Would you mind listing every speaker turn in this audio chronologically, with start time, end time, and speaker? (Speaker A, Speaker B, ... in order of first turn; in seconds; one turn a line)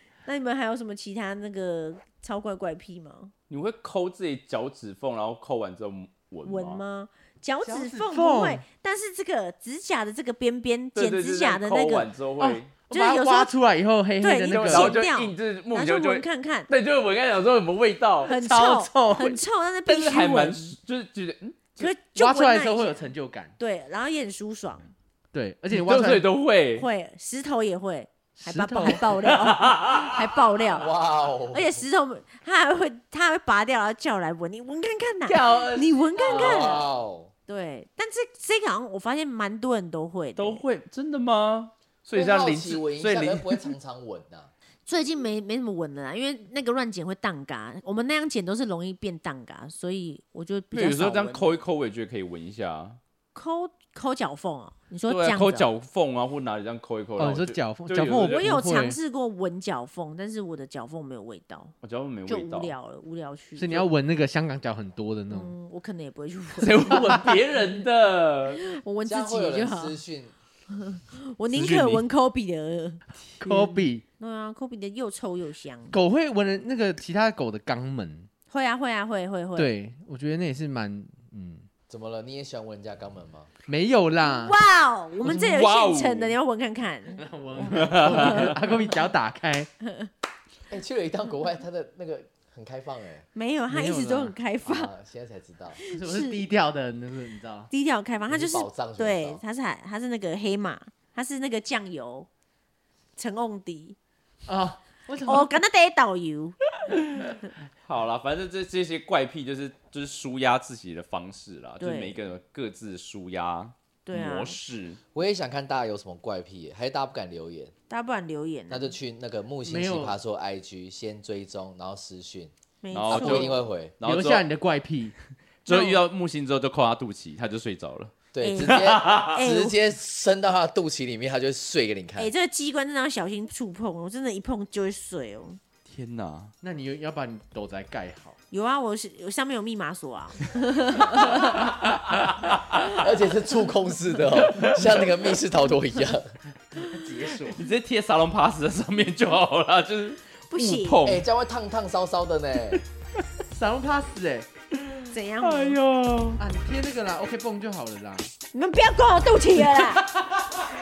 Speaker A: 0.2-3.3
Speaker B: 3.5-6.8
Speaker A: 6.4-12.1
Speaker C: 7.6-8.6
Speaker B: 10.9-12.7
Speaker C: 12.4-15.0
Speaker A: 12.9-13.5
Speaker A: 14.2-16.7
Speaker B: 14.5-18.3
Speaker C: 18.2-19.4
Speaker A: 18.2-20.8
Speaker B: 19.9-21.9
Speaker A: 21.8-23.0
Speaker C: 22.1-23.5
Speaker A: 23.6-24.9
Speaker C: 25.3-26.3
Speaker B: 25.7-26.9
Speaker A: 26.7-30.9
Speaker C: 28.4-29.1
Speaker B: 29.0-30.3
Speaker D: 30.7-31.8
Speaker A: 31.5-36.8
Speaker B: 35.3-36.8
Speaker D: 36.2-37.3
Speaker A: 37.5-40.6
Speaker B: 40.4-43.7
Speaker D: 42.1-44.5
Speaker A: 44.9-51.5
Speaker B: 50.7-53.0
Speaker A: 53.3-55.6
Speaker B: 55.1-58.5
Speaker C: 57.2-59.0
Speaker A: 58.4-61.7
Speaker B: 61.8-62.7
Speaker A: 62.3-63.9
Speaker C: 63.5-65.5
Speaker A: 65.3-67.3
Speaker B: 66.6-68.6
Speaker C: 66.9-67.2
Speaker A: 68.5-70.0
Speaker D: 69.0-70.3
Speaker A: 70.7-76.0
Speaker B: 71.5-72.0
Speaker C: 73.2-74.0
Speaker C: 75.9-78.3
Speaker A: 78.5-79.7
Speaker C: 79.5-81.7
Speaker D: 81.9-83.5
Speaker C: 83.7-84.6
Speaker A: 84.2-88.6
Speaker B: 85.2-86.3
Speaker C: 87.2-89.7
Speaker B: 87.7-88.5
Speaker A: 89.8-90.1
Speaker D: 90.7-93.2
Speaker A: 93.3-94.9
Speaker C: 93.7-94.3
Speaker D: 94.6-95.8
Speaker A: 95.8-96.4
Speaker C: 95.9-97.7
Speaker A: 97.7-102.3
Speaker D: 98.3-99.4
Speaker A: 103.2-104.0
Speaker C: 104.5-105.5
Speaker A: 105.2-106.5
Speaker B: 106.9-115.0
Speaker A: 111.8-112.2
Speaker A: 114.0-114.6
Speaker D: 115.1-117.7
Speaker A: 117.9-118.9
Speaker D: 118.7-122.5
Speaker C: 119.6-120.2
Speaker A: 122.8-123.6
Speaker B: 122.9-124.4
Speaker D: 123.1-123.9
Speaker C: 124.0-125.1
Speaker B: 125.6-129.3
Speaker A: 125.7-126.0
Speaker D: 128.3-132.3
Speaker A: 128.4-129.8
Speaker A: 132.2-135.6
Speaker B: 135.8-136.5
Speaker C: 136.6-138.4
Speaker A: 138.5-141.7
Speaker B: 141.8-143.0
Speaker D: 142.8-146.3
Speaker B: 144.3-145.1
Speaker C: 146.7-147.6
Speaker B: 147.5-151.2
Speaker A: 150.5-151.0
Speaker D: 151.0-152.8
Speaker C: 153.5-154.5
Speaker B: 154.9-156.4
Speaker A: 155.1-155.8
Speaker C: 156.4-158.3
Speaker A: 158.5-160.0
Speaker C: 159.7-160.2